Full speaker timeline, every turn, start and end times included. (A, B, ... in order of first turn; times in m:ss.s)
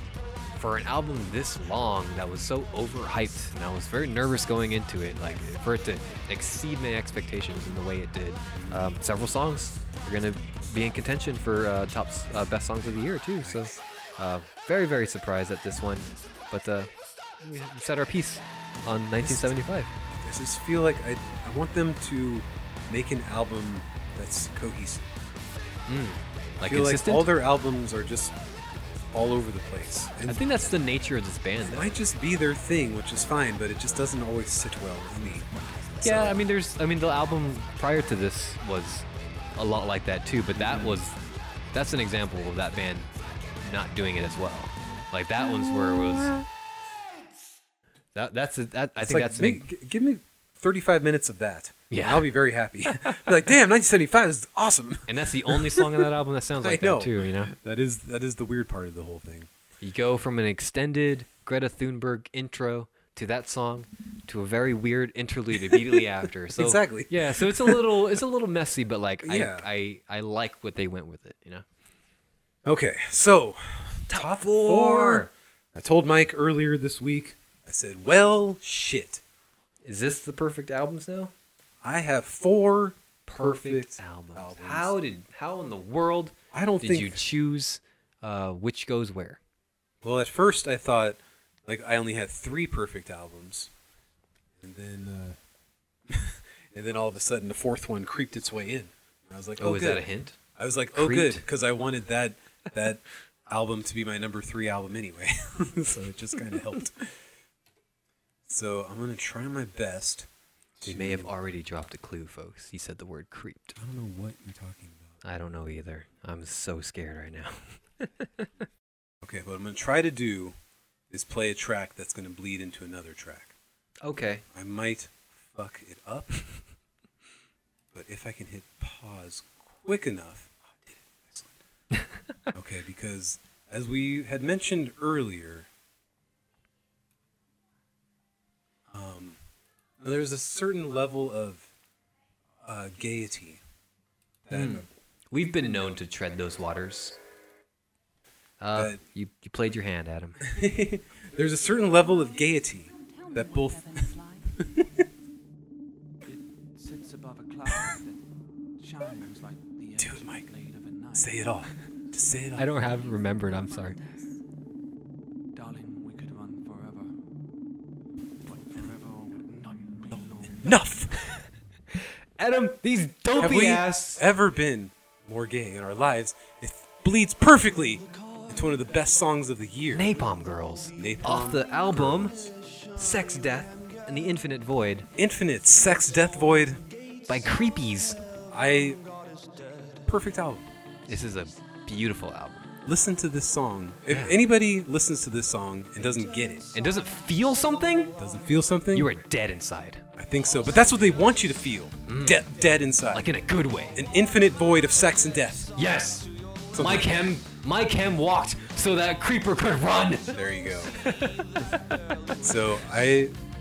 0:00.6-0:19.9 A
0:08.5-0:08.9 B
0:13.4-0:13.7 B
0:19.2-0:19.6 B
0:20.1-0:25.1 B
0:25.9-0:27.3 A
0:26.6-0:28.4 B
0:29.1-0:30.6 B
0:30.3-0:32.0 A
0:31.6-0:36.4 B
0:36.0-0:41.2 A
0:40.5-0:41.0 B
0:41.7-0:43.1 A
0:43.6-0:46.4 A
0:48.1-0:49.6 A
0:49.0-0:56.1 B
0:51.9-0:52.3 A
0:52.9-0:53.3 A
0:55.1-0:57.5 A
0:56.6-0:59.5 B
0:59.8-1:11.6 A
1:05.7-1:07.9 B
1:09.2-1:09.7 B
1:12.6-1:19.2 B
1:14.1-1:15.3 A
1:19.8-1:21.3 A
1:21.8-1:24.9 B
1:23.2-1:29.4 A
1:26.5-1:27.2 B
1:30.0-1:33.7 B
1:34.6-1:35.4 B
1:36.1-1:47.2 B
1:39.6-1:40.4 A
1:40.9-1:41.4 A
1:48.5-1:50.3 B
1:50.8-1:51.3 B
1:50.8-1:53.8 A
1:53.8-1:55.2 B
1:55.2-1:58.6 A
1:59.2-2:00.5 B
2:01.1-2:03.5 B
2:04.0-2:04.4 A
2:04.5-2:06.4 B
2:07.9-2:11.5 B
2:11.9-2:12.2 A
2:12.5-2:15.7 B
2:18.9-2:19.4 B
2:20.0-2:21.7 B
2:22.6-2:23.6 B
2:24.4-2:24.8 B
2:24.5-2:27.2 A
2:28.6-2:30.4 A
2:28.7-2:29.0 B
2:30.4-2:35.0 B
2:36.3-2:38.2 C
2:38.8-2:41.5 C
2:40.0-2:40.5 B
2:41.1-2:42.8 B
2:42.6-2:44.0 A
2:44.0-2:44.3 C
2:45.5-2:47.1 C
2:48.4-2:50.7 C
2:50.6-2:51.1 B
2:51.2-2:54.2 A
2:53.4-3:00.2 B
2:59.9-3:02.3 A
3:01.0-3:02.5 B
3:03.0-3:05.1 A
3:05.2-3:06.8 B
3:07.3-3:08.2 A
3:08.5-3:09.0 B
3:10.0-3:10.6 B
3:11.1-3:12.6 A
3:12.8-3:16.7 B
3:14.1-3:14.4 A
3:16.7-3:18.2 A
3:18.2-3:19.1 B
3:18.9-3:20.0 A
3:20.2-3:23.3 B
3:22.1-3:22.4 A
3:23.1-3:24.0 A
3:23.9-3:25.7 B
3:25.8-3:30.3 A
3:26.7-3:27.1 B
3:30.3-3:30.9 B
3:31.0-3:32.0 A
3:32.4-3:33.3 B